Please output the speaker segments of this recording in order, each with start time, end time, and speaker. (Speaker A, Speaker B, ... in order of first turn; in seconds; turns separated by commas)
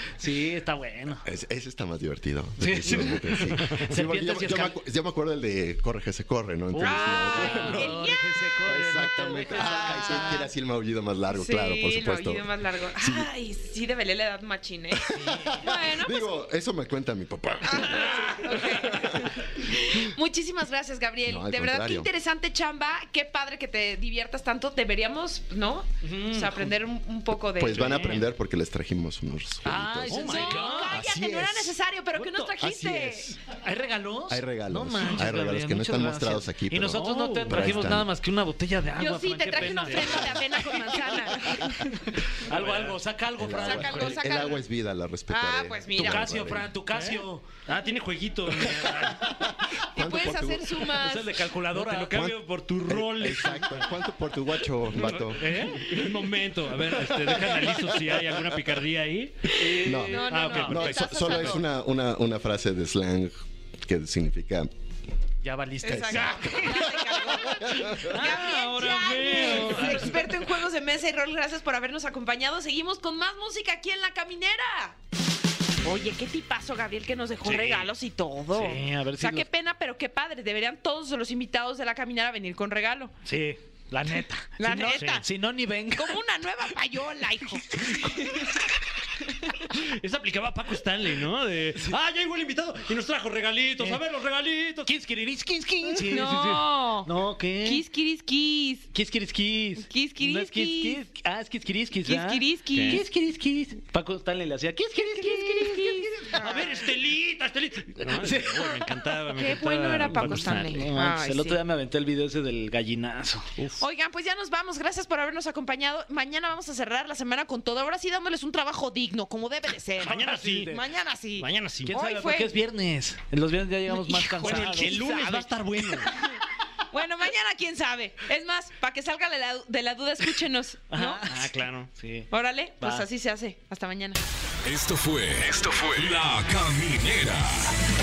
Speaker A: 0.1-1.2, Speaker B: 1.2-8.0, Speaker A: 2.6-4.8, Speaker C: 3.5-3.9, Speaker A: 6.7-10.5, Speaker D: 6.8-8.3, Speaker B: 8.7-13.3, Speaker D: 9.3-10.4, Speaker D: 11.3-15.1, Speaker B: 15.0-19.4, Speaker A: 15.1-15.7, Speaker D: 15.6-16.3, Speaker D: 17.6-27.9, Speaker B: 21.3-22.1, Speaker A: 26.0-26.8, Speaker B: 27.6-30.3, Speaker C: 27.7-28.3, Speaker A: 29.6-31.0, Speaker C: 30.1-30.9, Speaker D: 30.2-33.3, Speaker B: 30.9-33.4, Speaker A: 33.5-41.8, Speaker B: 34.3-38.1, Speaker C: 36.9-38.0, Speaker D: 39.0-42.1, Speaker C: 39.6-40.0, Speaker A: 42.4-44.2, Speaker C: 42.5-43.0, Speaker B: 43.4-46.8, Speaker D: 43.4-44.6, Speaker D: 45.3-46.4, Speaker A: 46.0-47.6, Speaker C: 46.9-49.4, Speaker B: 48.8-50.9, Speaker D: 49.8-51.5, Speaker A: 50.9-52.3, Speaker C: 51.7-53.9, Speaker B: 52.1-55.5, Speaker C: 54.9-59.6, Speaker A: 55.4-55.9, Speaker A: 59.5-60.9, Speaker B: 59.8-63.3, Speaker D: 60.0-61.7, Speaker C: 60.3-61.6, Speaker B: 63.8-64.7, Speaker A: 65.4-68.5, Speaker D: 65.8-75.0, Speaker B: 65.9-68.1, Speaker C: 68.0-70.2, Speaker A: 69.3-70.3, Speaker D: 75.8-83.1, Speaker A: 77.4-77.9, Speaker A: 78.5-79.5, Speaker A: 83.2-86.2, Speaker D: 84.6-85.2, Speaker C: 84.8-85.2, Speaker D: 85.9-88.7, Speaker A: 87.8-88.5, Speaker C: 89.6-94.9, Speaker A: 94.8-97.8, Speaker D: 96.0-97.1, Speaker D: 97.6-98.9, Speaker A: 98.9-106.8, Speaker D: 99.9-101.0, Speaker D: 102.0-103.0, Speaker C: 102.7-103.0, Speaker D: 105.2-106.7, Speaker C: 106.4-110.9, Speaker A: 108.0-109.0, Speaker D: 109.3-111.6, Speaker A: 110.0-113.6, Speaker D: 113.8-122.5, Speaker C: 120.0-120.7, Speaker A: 120.0-120.8, Speaker C: 121.4-121.9, Speaker A: 121.9-125.0, Speaker D: 123.9-131.2, Speaker C: 124.4-126.3, Speaker A: 130.9-132.3, Speaker C: 131.3-131.9, Speaker D: 132.3-134.2, Speaker A: 132.8-133.1, Speaker E: 134.7-137.8